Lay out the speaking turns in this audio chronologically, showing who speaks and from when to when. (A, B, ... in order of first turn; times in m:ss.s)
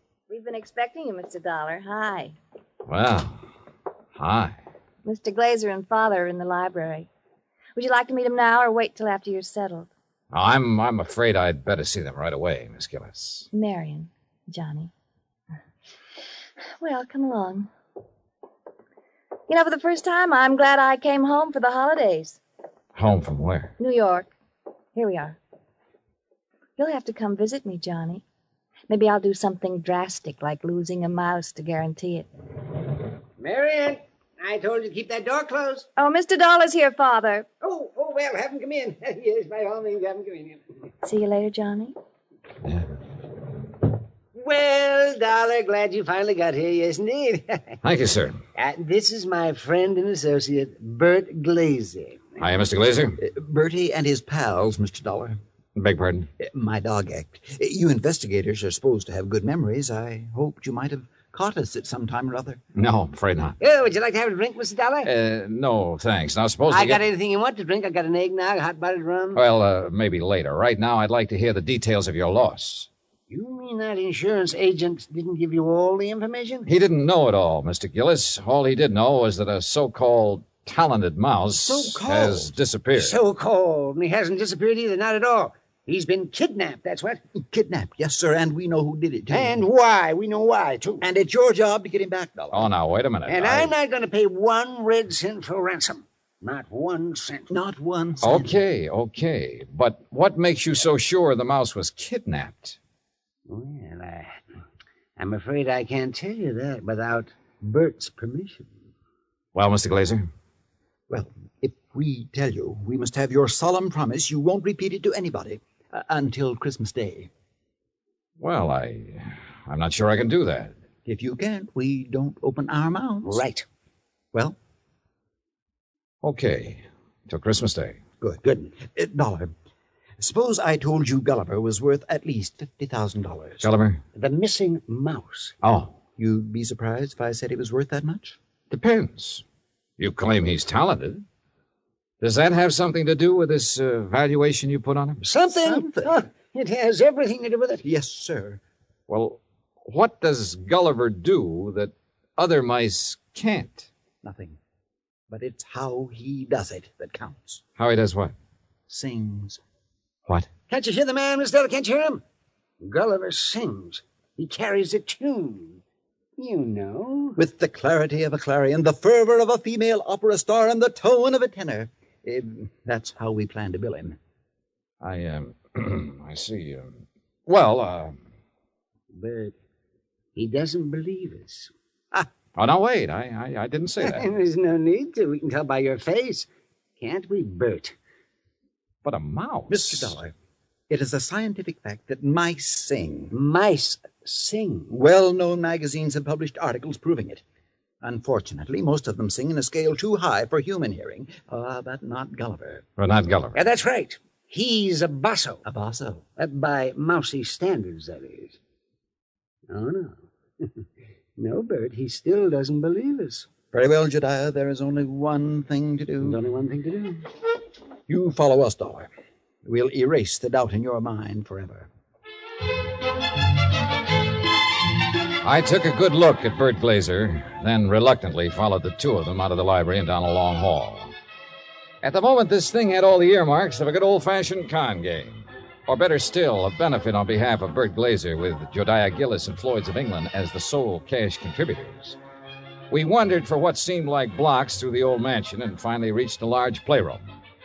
0:00.3-0:02.3 A
0:02.9-0:03.4 B
0:04.2-0:04.6 B
0:05.0-0:07.1 A
0:07.7-0:09.9 A
0:10.3-0:13.5 B
0:13.5-0:14.9 A
0:16.8-0:17.7 A
0:19.5-0:22.4 A
0:23.0-0:23.7 B
0:23.8-0:24.3 A
0:24.9-0:25.4 A
0:26.8-0:28.2 A
0:28.9-0:32.3 A
0:33.4-0:35.9 C
0:36.0-0:37.5 A
0:37.6-0:40.6 C
0:41.0-0:41.9 A
0:44.3-0:47.8 C
0:47.8-0:48.4 B
0:48.5-0:52.4 C
0:52.4-0:53.2 B
0:53.2-0:55.4 D
0:55.8-0:56.3 B
0:56.4-1:02.6 D
1:02.7-1:03.6 B
1:03.6-1:05.1 C
1:05.0-1:07.0 B
1:06.7-1:09.4 C
1:09.3-1:12.9 B
1:13.3-1:16.7 C
1:16.6-1:23.2 B
1:21.6-1:22.5 D
1:22.9-1:27.2 C
1:27.3-1:29.6 D
1:29.3-1:31.0 C
1:31.0-1:32.7 D
1:32.5-1:33.7 B
1:33.3-1:37.5 C
1:37.5-1:38.5 D
1:38.2-1:42.8 B
1:43.5-1:44.4 C
1:45.2-1:48.7 C
1:49.5-1:50.3 B
1:51.1-1:57.3 D
1:58.4-2:00.8 B
2:01.0-2:03.4 D
2:03.2-2:03.6 C
2:06.2-2:08.0 B
2:08.2-2:09.5 D
2:08.4-2:08.7 C
2:10.2-2:13.7 D
2:13.6-2:14.0 B
2:14.1-2:15.6 C
2:15.6-2:16.0 B
2:16.2-2:18.4 D
2:18.7-2:19.4 B
2:20.0-2:21.2 B
2:22.2-2:25.2 B
2:25.2-2:27.8 C
2:25.5-2:26.3 D
2:27.8-2:28.6 D
2:29.1-2:33.9 B
2:34.2-2:34.6 D
2:35.3-2:37.6 D
2:37.8-2:38.3 B
2:38.9-2:39.6 D
2:40.7-2:42.2 C
2:42.8-2:45.8 C
2:46.4-2:47.4 C
2:47.4-2:54.2 D
2:55.0-2:58.2 B
2:59.1-2:59.5 C
3:00.3-3:01.7 C
3:02.6-3:04.3 B
3:04.0-3:06.5 C
3:07.0-3:07.9 C
3:09.0-3:10.1 B
3:09.7-3:10.3 D
3:10.9-3:13.3 D
3:13.3-3:14.9 C
3:14.9-3:17.4 D
3:18.0-3:22.8 D
3:23.0-3:23.6 B
3:23.5-3:25.6 C
3:25.6-3:26.2 D
3:26.4-3:28.6 C
3:29.7-3:30.6 C
3:31.4-3:33.5 C
3:33.7-3:36.4 D
3:36.2-3:37.2 C
3:38.1-3:39.1 D
3:39.6-3:41.9 D
3:45.4-3:51.1 B
3:52.0-4:02.2 B
4:02.9-4:07.4 B